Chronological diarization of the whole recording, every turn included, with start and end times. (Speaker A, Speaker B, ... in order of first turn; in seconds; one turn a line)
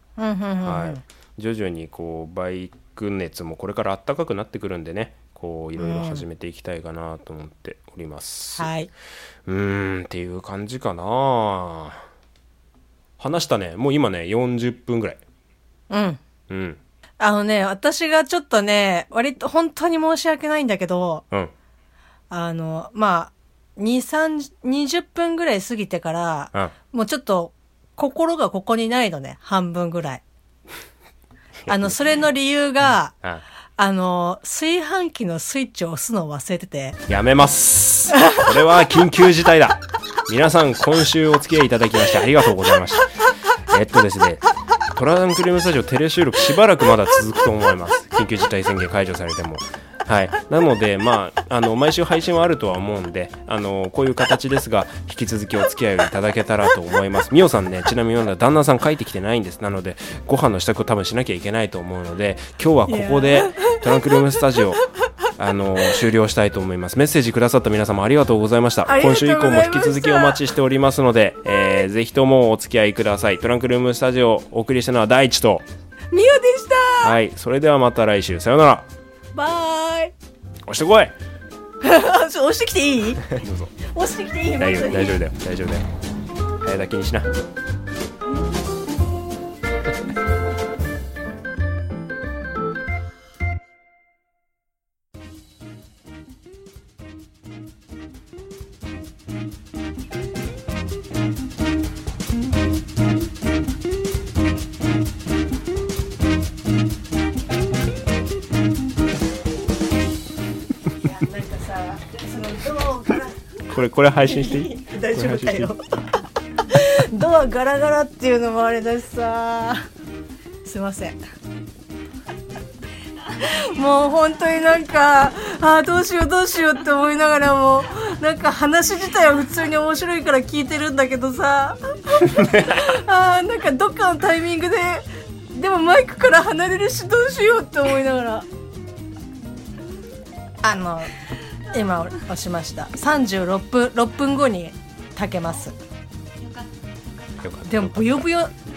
Speaker A: 0.2-1.0
Speaker B: 0.6-8.7
Speaker A: 5.8-6.2
Speaker A: 8.6-8.9
Speaker B: 9.5-12.0
Speaker B: 13.2-15.2
Speaker A: 15.9-16.2
Speaker B: 16.5-16.8
Speaker A: 17.2-21.2
Speaker A: 22.3-30.2
Speaker B: 31.7-32.2
Speaker A: 31.7-33.1
Speaker A: 33.8-37.0
Speaker B: 37.1-43.1
Speaker B: 43.7-64.8
Speaker A: 62.9-63.9
Speaker B: 65.4-75.7
Speaker A: 68.9-70.4
Speaker A: 76.1-77.2
Speaker B: 77.0-78.9
Speaker A: 79.3-80.1
Speaker B: 80.7-81.1
Speaker A: 81.8-83.3
Speaker B: 83.3-83.7
Speaker A: 83.9-85.2
Speaker B: 84.6-85.9
Speaker B: 86.6-87.3
Speaker A: 110.9-113.4
Speaker B: 113.7-115.7
Speaker A: 114.2-115.8
Speaker A: 116.7-119.8
Speaker A: 120.6-121.2
Speaker A: 123.3-138.5
Speaker B: 132.3-132.8
Speaker A: 140.6-141.1
Speaker A: 141.7-145.7
Speaker B: 147.4-148.3
Speaker A: 147.7-148.5